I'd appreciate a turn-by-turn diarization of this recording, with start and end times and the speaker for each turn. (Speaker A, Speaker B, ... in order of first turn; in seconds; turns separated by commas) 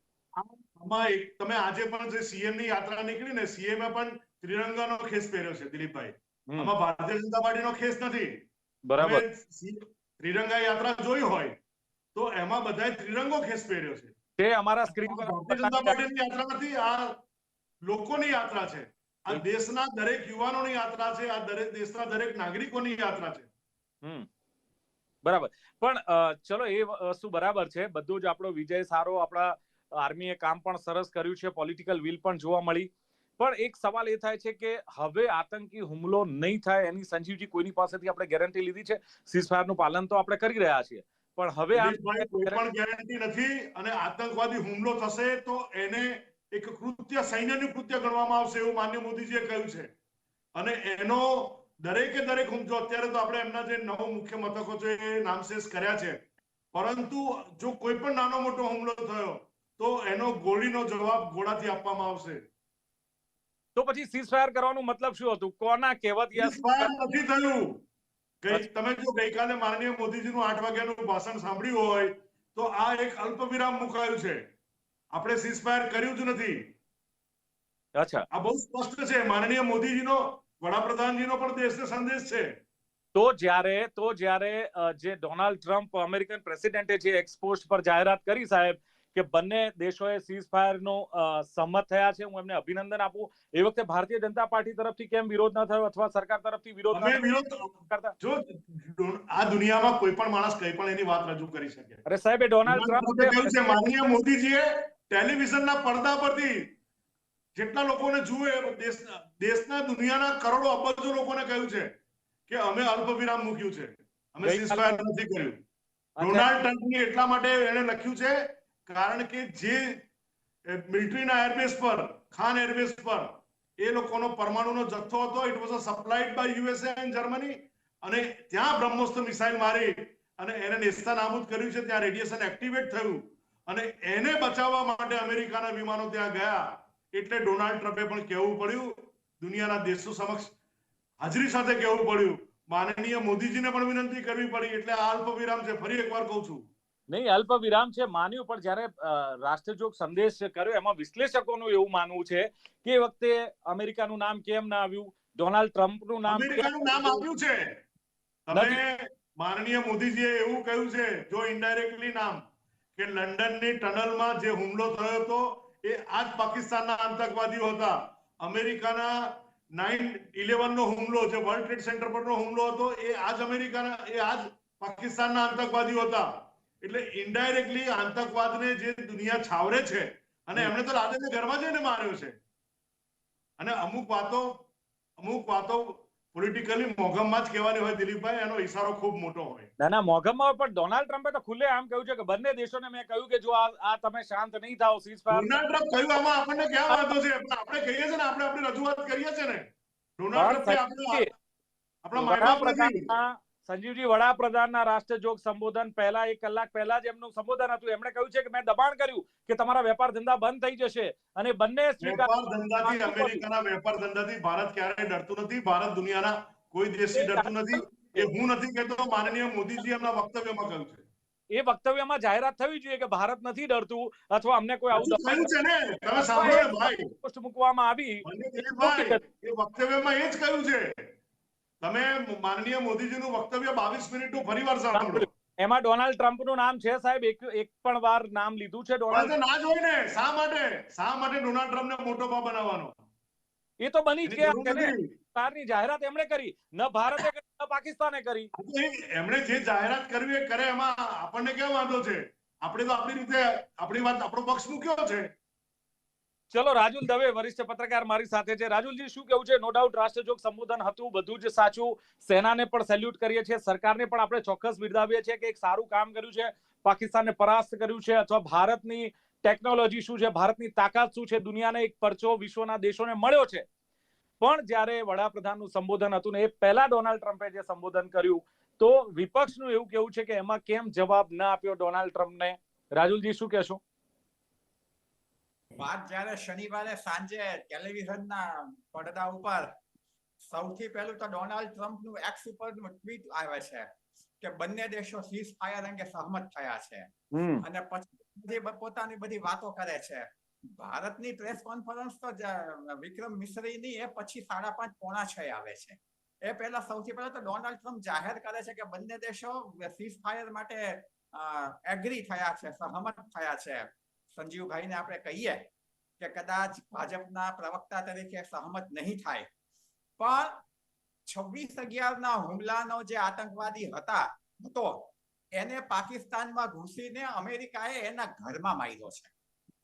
Speaker A: 0.3-8.4, Speaker B: 8.9-9.2, Speaker A: 9.0-11.6, Speaker A: 12.1-14.1, Speaker B: 14.4-16.0, Speaker A: 14.9-17.2, Speaker A: 17.9-23.5, Speaker B: 25.2-42.6, Speaker A: 41.7-49.9, Speaker A: 50.5-56.2, Speaker A: 56.7-62.4, Speaker B: 63.8-66.9, Speaker A: 66.3-67.8, Speaker A: 68.4-74.4, Speaker A: 75.1-76.7, Speaker B: 78.0-78.2, Speaker A: 78.3-82.5, Speaker B: 83.1-97.2, Speaker A: 96.9-102.0, Speaker B: 97.8-98.1, Speaker B: 102.0-103.8, Speaker A: 102.7-106.7, Speaker A: 107.5-111.9, Speaker A: 112.5-115.6, Speaker B: 114.4-115.0, Speaker B: 116.2-116.5, Speaker A: 116.2-120.0, Speaker A: 120.7-140.5, Speaker A: 141.2-146.6, Speaker B: 147.1-157.2, Speaker A: 156.3-157.7, Speaker A: 158.5-162.4, Speaker B: 158.5-158.8, Speaker A: 162.9-176.3, Speaker A: 176.8-182.3, Speaker A: 183.6-184.6, Speaker A: 185.2-189.7, Speaker B: 189.8-195.6, Speaker A: 195.3-201.3, Speaker B: 200.3-201.2, Speaker A: 202.0-203.1, Speaker B: 202.2-213.4, Speaker A: 212.0-221.0, Speaker B: 217.1-218.3, Speaker B: 221.5-225.5, Speaker A: 224.9-227.1, Speaker B: 226.2-228.2, Speaker A: 228.2-231.0, Speaker B: 228.8-229.2, Speaker A: 231.8-235.3, Speaker B: 234.9-239.3, Speaker A: 239.1-243.0, Speaker B: 243.8-248.5, Speaker A: 244.2-245.1, Speaker A: 248.5-255.3, Speaker B: 256.5-273.6, Speaker B: 274.4-283.8, Speaker C: 285.8-289.7, Speaker C: 290.4-315.7, Speaker B: 297.3-297.6, Speaker C: 316.2-319.5, Speaker C: 320.2-320.6, Speaker C: 321.3-329.3